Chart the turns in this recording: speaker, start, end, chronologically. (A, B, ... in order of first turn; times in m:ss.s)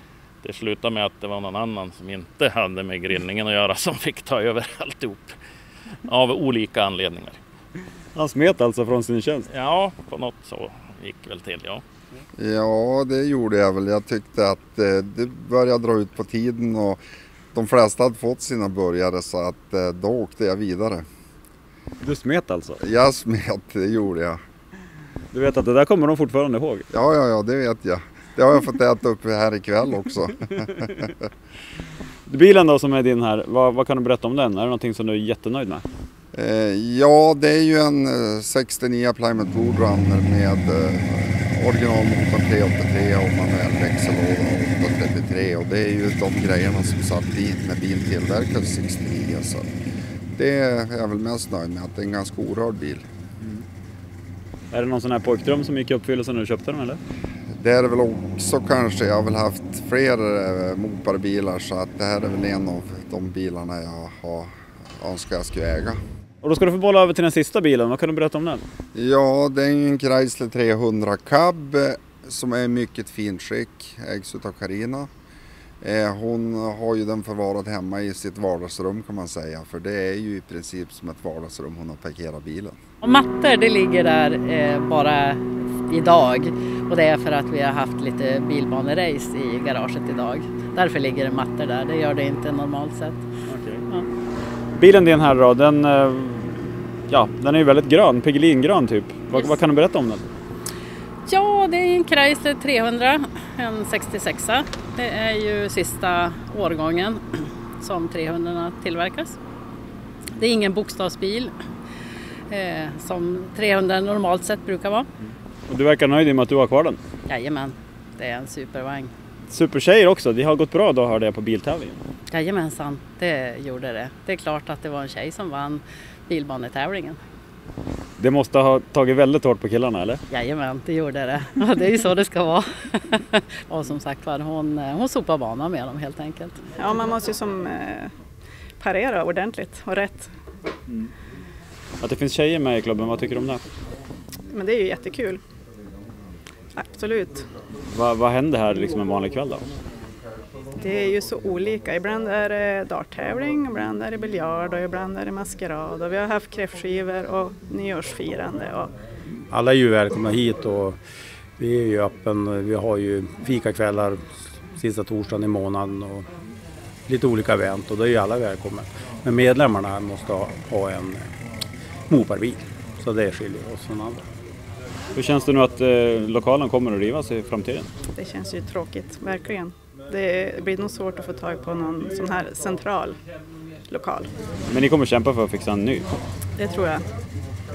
0:00.4-0:05.3 A
0:06.0-0:07.4 A
0:08.1-0:09.5 B
0:09.5-0:11.8 A
0:12.4-0:17.0 C
0:17.5-0:21.0 C
0:22.0-0:22.8 B
0:22.8-0:24.4 C
0:25.3-0:26.8 B
0:26.9-0:31.1 C
0:32.3-0:35.8 B
0:36.3-0:49.7 C
0:50.4-0:53.0 C
0:54.7-0:57.0 B
0:57.6-1:06.0 C
1:06.4-1:08.6 B
1:08.9-1:15.1 C
1:15.8-1:22.8 C
1:23.0-1:33.2 D
1:33.5-1:33.8 B
1:34.7-1:40.2 B
1:41.3-1:47.2 D
1:47.8-1:49.4 D
1:50.4-1:51.5 D
1:52.5-1:55.1 D
1:55.7-1:57.0 B
1:57.3-1:59.1 D
1:59.5-2:02.0 B
2:02.3-2:07.2 D
2:08.2-2:10.2 B
2:10.3-2:16.6 D
2:16.8-2:18.1 E
2:18.8-2:20.3 E
2:22.0-2:23.6 B
2:24.5-2:25.4 E
2:26.7-2:27.4 E
2:27.9-2:29.6 B
2:30.8-2:38.9 E
2:39.5-2:41.0 F
2:41.6-2:46.3 F
2:47.1-2:51.3 F
2:52.1-2:54.2 F
2:55.1-2:57.9 B
2:58.2-3:03.2 E
3:03.9-3:04.3 E
3:04.7-3:06.1 B
3:06.6-3:07.0 E